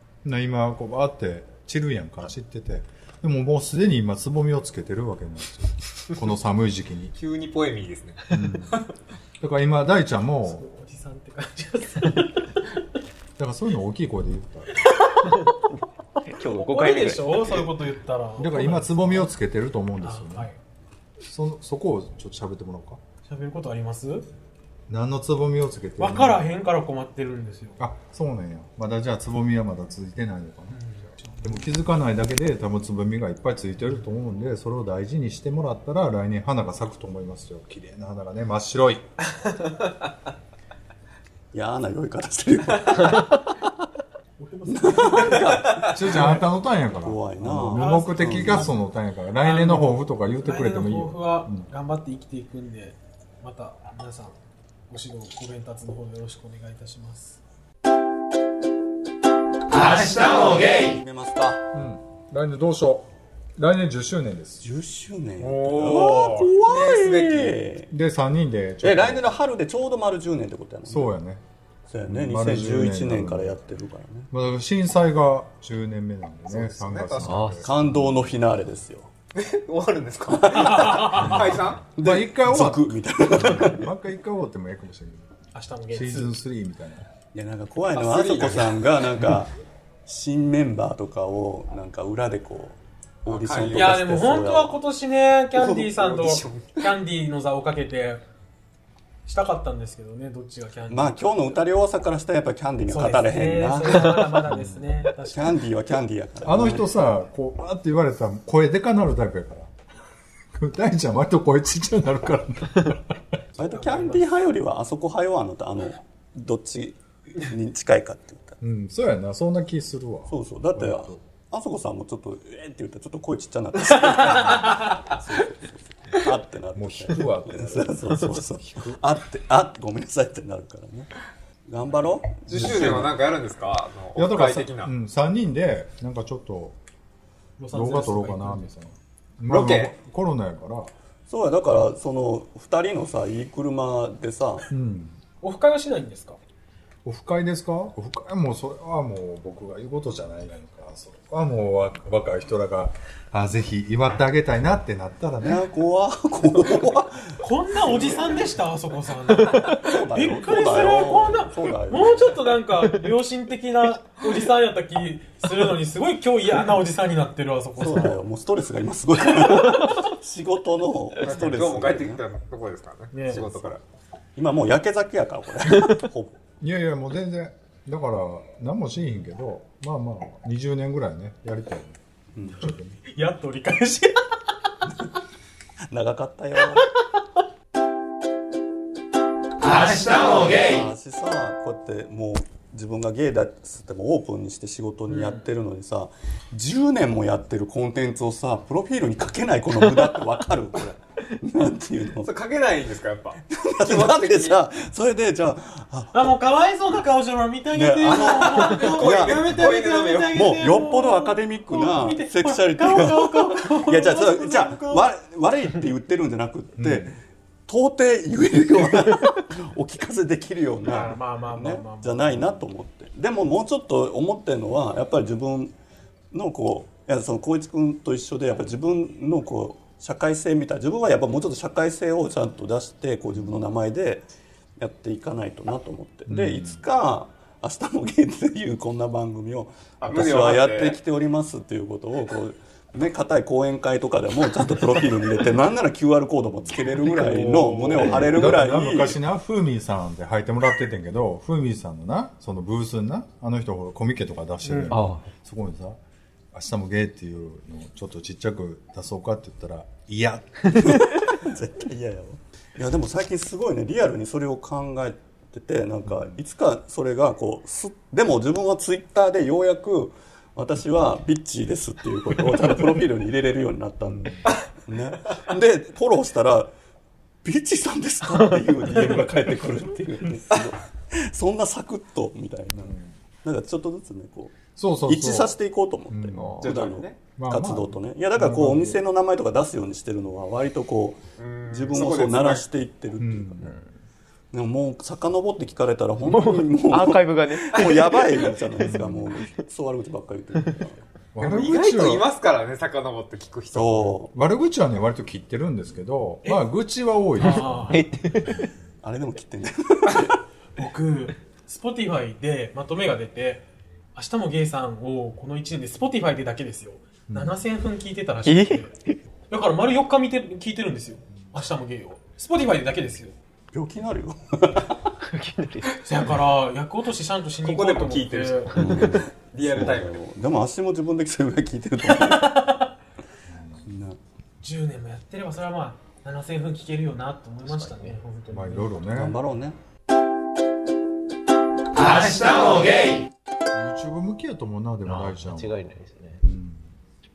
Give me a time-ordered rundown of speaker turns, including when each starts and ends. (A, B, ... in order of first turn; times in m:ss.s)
0:00.2-0:07.1 A
0:07.1-0:08.9 B
0:08.3-0:08.8 A
0:09.4-0:10.6 A
0:10.4-0:12.6 C
0:13.4-0:14.8 A
0:15.2-0:15.6 C
0:15.2-0:17.6 D
0:16.3-0:19.3 C
0:18.4-0:20.5 A
0:20.0-0:20.6 C
0:21.2-0:23.0 A
0:23.2-0:24.3 C
0:24.9-0:26.4 A
0:26.0-0:27.8 C
0:27.8-0:39.0 A
0:30.7-0:31.6 C
0:41.5-0:43.4 E
0:43.0-0:43.3 D
0:44.4-0:45.6 C
0:44.7-0:48.7 E
0:45.5-0:45.7 B
0:45.7-0:51.7 A
0:47.7-0:48.8 C
0:49.4-0:54.4 C
0:54.9-0:57.4 C
1:00.0-1:01.6 E
1:01.7-1:04.7 A
1:04.6-1:07.9 E
1:05.4-1:07.7 B
1:07.9-1:09.4 A
1:08.8-1:11.1 E
1:10.9-1:11.4 A
1:11.9-1:14.3 E
1:12.0-1:13.6 A
1:14.3-1:18.3 A
1:16.5-1:17.5 B
1:17.2-1:17.6 D
1:17.6-1:19.1 E
1:19.3-1:21.8 B
1:20.3-1:21.2 E
1:20.5-1:21.6 C
1:21.2-1:25.4 A
1:21.9-1:23.9 E
1:25.5-1:26.4 C
1:25.9-1:27.0 A
1:27.3-1:29.5 E
1:27.9-1:29.4 B
1:30.0-1:34.8 E
1:33.2-1:34.3 B
1:33.7-1:38.2 C
1:35.6-1:36.9 B
1:39.2-1:41.6 C
1:40.9-1:44.4 E
1:42.9-1:45.6 C
1:44.4-1:45.0 A
1:45.2-1:46.9 E
1:46.4-1:49.7 A
1:50.5-1:53.4 A
1:53.6-1:58.6 E
1:58.6-2:01.2 A
2:00.3-2:11.1 E
2:04.5-2:04.9 C
2:06.7-2:09.0 A
2:11.7-2:13.1 E
2:12.4-2:14.9 B
2:12.5-2:13.1 A
2:14.2-2:16.8 A
2:17.6-2:18.7 C
2:17.7-2:20.9 A
2:19.5-2:19.9 B
2:21.3-2:24.7 E
2:24.7-2:25.2 A
2:25.4-2:26.4 C
2:27.0-2:35.6 A
2:35.4-2:38.5 E
2:37.4-2:48.2 C
2:39.5-2:39.8 D
2:39.8-2:42.5 E
2:47.8-2:52.2 E
2:51.2-2:53.8 B
2:53.1-2:53.4 C
2:53.3-2:53.8 E
2:54.4-2:56.4 E
2:56.6-3:03.0 A
3:02.3-3:02.7 E
3:03.0-3:04.4 C
3:05.9-3:07.0 E
3:09.9-3:22.3 E
3:15.1-3:15.5 C
3:22.2-3:24.6 B
3:23.5-3:26.3 E
3:26.1-3:35.1 C
3:27.7-3:29.8 E
3:28.1-3:30.6 B
3:30.3-3:45.7 E
3:36.8-3:37.2 A
3:40.8-3:42.6 C
3:46.3-3:54.2 E
3:54.8-4:09.2 E
3:56.3-3:56.8 A
4:00.0-4:01.0 B
4:06.9-4:08.5 B
4:08.0-4:16.0 A
4:14.6-4:15.0 C
4:14.9-4:15.3 D
4:16.5-4:21.0 A
4:20.7-4:36.7 E
4:26.1-4:26.4 A
4:34.0-4:34.5 A
4:37.4-4:53.7 E
4:42.8-4:43.1 A
4:44.7-4:45.6 A
4:46.1-4:46.7 A
4:46.4-4:46.6 D
4:46.6-4:47.2 B
4:47.4-4:49.0 A
4:51.4-4:52.6 B
4:53.2-4:53.7 A
4:54.5-5:01.0 E
4:56.2-4:58.6 D
4:57.7-4:58.5 B
4:58.8-4:59.3 A
5:01.3-5:02.2 A
5:01.4-5:04.2 B
5:03.7-5:04.3 E
5:04.3-5:08.0 A
5:07.4-5:08.0 C
5:07.9-5:08.7 D
5:09.0-5:10.4 E
5:10.8-5:18.9 C
5:17.3-5:17.6 A
5:18.4-5:19.2 D
5:19.5-5:23.3 C
5:23.7-5:25.1 E
5:25.2-5:26.0 D
5:26.0-5:29.1 C
5:27.6-5:30.2 B
5:28.8-5:32.7 E
5:32.0-5:32.9 C
5:33.5-5:33.9 A
5:33.8-5:34.2 E
5:34.6-5:39.0 C
5:37.6-5:38.2 D
5:38.5-5:39.4 A
5:39.0-5:39.8 E
5:42.1-5:43.0 D
5:43.7-5:45.9 A
5:45.0-5:46.4 D
5:46.4-5:46.9 A